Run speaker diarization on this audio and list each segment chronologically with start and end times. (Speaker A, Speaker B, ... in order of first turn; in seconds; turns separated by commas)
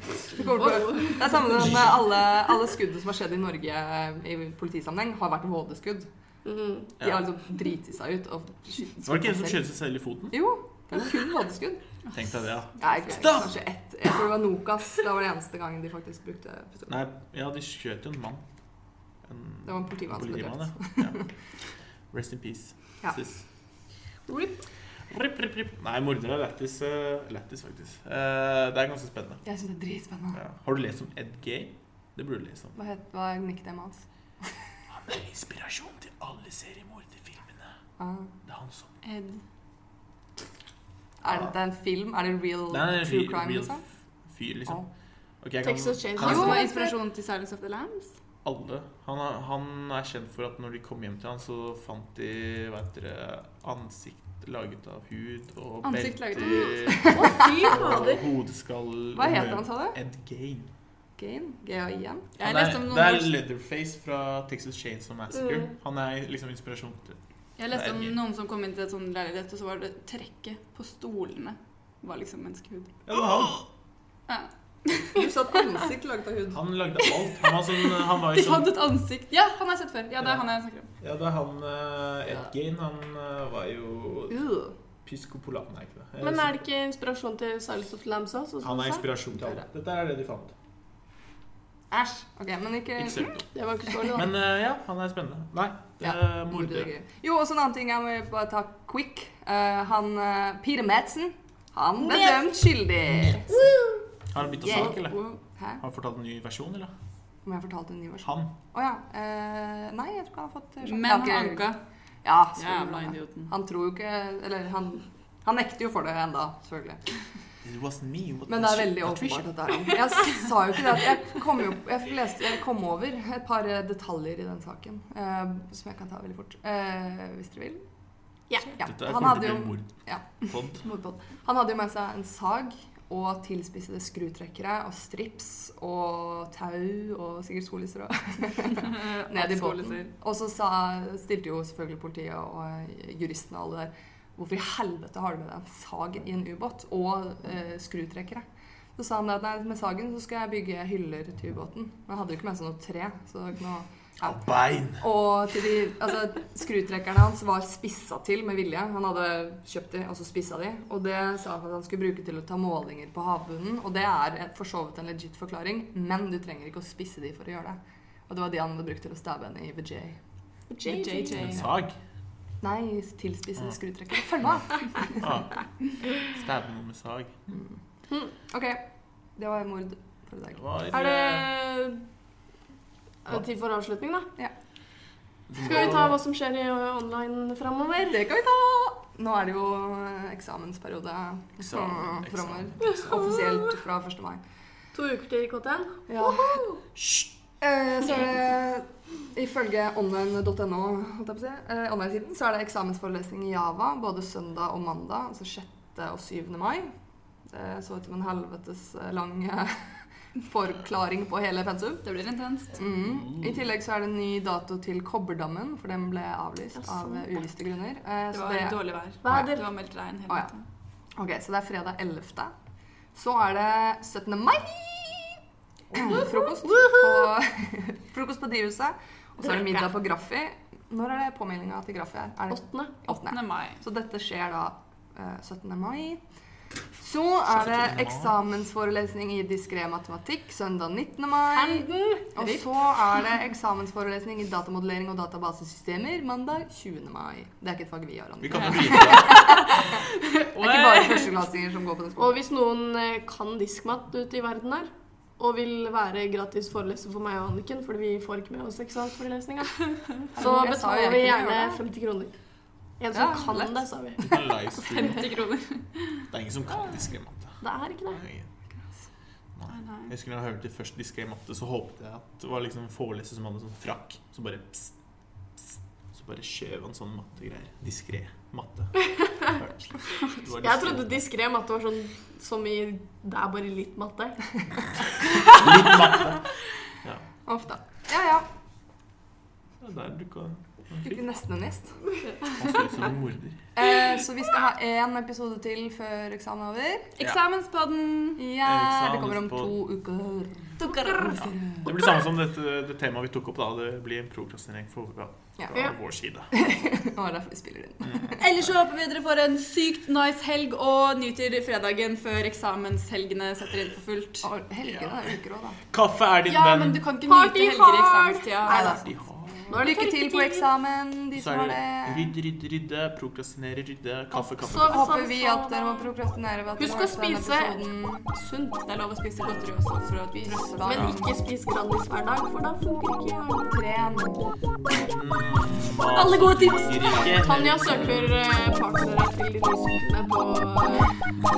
Speaker A: 0.3-6.1, Speaker B: 0.4-1.6, Speaker C: 1.6-2.1, Speaker B: 6.4-6.9, Speaker A: 7.0-9.6, Speaker C: 9.0-10.4, Speaker A: 10.3-11.8, Speaker C: 12.1-13.6, Speaker A: 12.8-17.0, Speaker C: 16.9-18.4, Speaker C: 19.2-21.2, Speaker A: 19.6-21.3, Speaker C: 22.1-23.4, Speaker B: 24.3-24.6, Speaker C: 25.1-29.4, Speaker A: 29.4-30.4, Speaker C: 30.3-32.8, Speaker A: 32.8-34.5, Speaker C: 34.9-37.7, Speaker A: 38.0-38.3, Speaker C: 38.4-38.9, Speaker D: 39.0-39.4, Speaker A: 41.2-43.8, Speaker C: 42.7-44.8, Speaker C: 45.4-46.6, Speaker B: 45.6-46.9, Speaker D: 46.2-48.1, Speaker A: 46.2-46.9, Speaker C: 48.4-60.7, Speaker D: 55.8-57.1, Speaker B: 56.4-58.2, Speaker A: 59.1-60.0, Speaker A: 61.2-62.3, Speaker D: 62.4-63.4, Speaker C: 62.4-67.2, Speaker B: 65.4-65.7, Speaker D: 67.6-73.0, Speaker C: 67.7-68.2, Speaker C: 73.1-73.6, Speaker D: 74.3-75.2, Speaker A: 75.1-76.6, Speaker C: 76.5-78.7, Speaker D: 78.2-80.9, Speaker C: 81.0-84.4, Speaker A: 84.3-84.7, Speaker C: 85.0-86.5, Speaker B: 86.2-89.1, Speaker C: 88.6-90.5, Speaker A: 91.9-93.3, Speaker C: 93.0-93.5, Speaker B: 93.5-94.3, Speaker C: 94.1-96.9, Speaker A: 96.0-103.5, Speaker B: 102.0-102.7, Speaker C: 103.1-103.4, Speaker B: 103.5-104.0, Speaker C: 104.3-105.2, Speaker A: 104.6-105.8, Speaker C: 105.8-106.9, Speaker A: 107.4-117.0, Speaker C: 108.2-108.5, Speaker D: 110.8-111.8, Speaker D: 112.5-113.5, Speaker C: 117.6-120.0, Speaker A: 118.5-127.8, Speaker A: 128.7-148.4, Speaker C: 128.8-130.8, Speaker D: 138.8-140.1, Speaker A: 148.9-170.2, Speaker C: 154.2-155.0, Speaker B: 170.7-171.5, Speaker D: 170.8-171.7, Speaker C: 171.3-171.9, Speaker A: 172.6-175.3, Speaker C: 175.2-175.5, Speaker C: 176.2-177.4, Speaker A: 177.5-177.8, Speaker A: 178.4-180.6, Speaker C: 180.6-181.5, Speaker B: 180.9-182.0, Speaker B: 183.2-184.3, Speaker C: 185.5-186.2, Speaker B: 185.6-188.2, Speaker A: 188.0-194.4, Speaker C: 191.6-193.1, Speaker B: 192.8-193.8, Speaker B: 194.9-196.8, Speaker A: 196.1-196.6, Speaker C: 196.9-197.3, Speaker A: 197.6-206.9, Speaker A: 207.5-212.0, Speaker D: 212.0-212.8, Speaker A: 212.8-219.5, Speaker C: 213.0-213.6, Speaker B: 216.8-217.4, Speaker D: 218.3-220.6, Speaker B: 219.2-219.7, Speaker A: 221.2-222.5, Speaker A: 223.1-225.4, Speaker B: 225.9-227.3, Speaker A: 225.9-236.2, Speaker B: 229.4-229.9, Speaker B: 232.5-232.9, Speaker D: 233.2-233.8, Speaker A: 237.0-250.0, Speaker C: 237.5-238.3, Speaker B: 241.5-242.8, Speaker C: 248.4-249.8, Speaker D: 248.9-251.3, Speaker A: 250.5-252.4, Speaker B: 252.2-262.3, Speaker A: 260.3-261.8, Speaker B: 263.0-265.2, Speaker A: 263.1-263.8, Speaker C: 264.2-265.2, Speaker D: 265.0-266.3, Speaker C: 266.3-267.6, Speaker B: 267.6-268.2, Speaker C: 268.1-268.5, Speaker C: 269.6-274.9, Speaker D: 269.7-270.1, Speaker C: 275.6-278.9, Speaker B: 279.1-279.5, Speaker C: 279.4-281.2, Speaker B: 280.4-284.4, Speaker C: 285.4-286.5, Speaker A: 287.4-288.4, Speaker C: 289.8-291.2, Speaker A: 291.0-292.0, Speaker C: 292.6-293.6, Speaker A: 293.8-297.1, Speaker D: 297.1-298.4, Speaker A: 298.4-301.9, Speaker C: 298.6-299.7, Speaker D: 300.8-301.5, Speaker C: 301.8-306.5, Speaker A: 306.5-308.4, Speaker C: 308.0-308.7, Speaker D: 308.4-314.5, Speaker A: 314.4-315.8, Speaker C: 314.8-315.3, Speaker C: 315.9-317.0, Speaker D: 316.5-319.0, Speaker B: 317.2-319.0, Speaker A: 318.6-319.1, Speaker C: 319.0-319.8, Speaker B: 319.7-320.7, Speaker A: 319.7-322.3, Speaker C: 321.4-325.2, Speaker B: 324.3-326.1, Speaker A: 324.9-328.3, Speaker B: 326.8-327.8, Speaker B: 328.3-328.8, Speaker D: 328.7-331.3, Speaker B: 330.8-333.7, Speaker A: 333.7-334.4, Speaker C: 334.9-338.3, Speaker D: 336.1-337.2, Speaker B: 337.3-341.1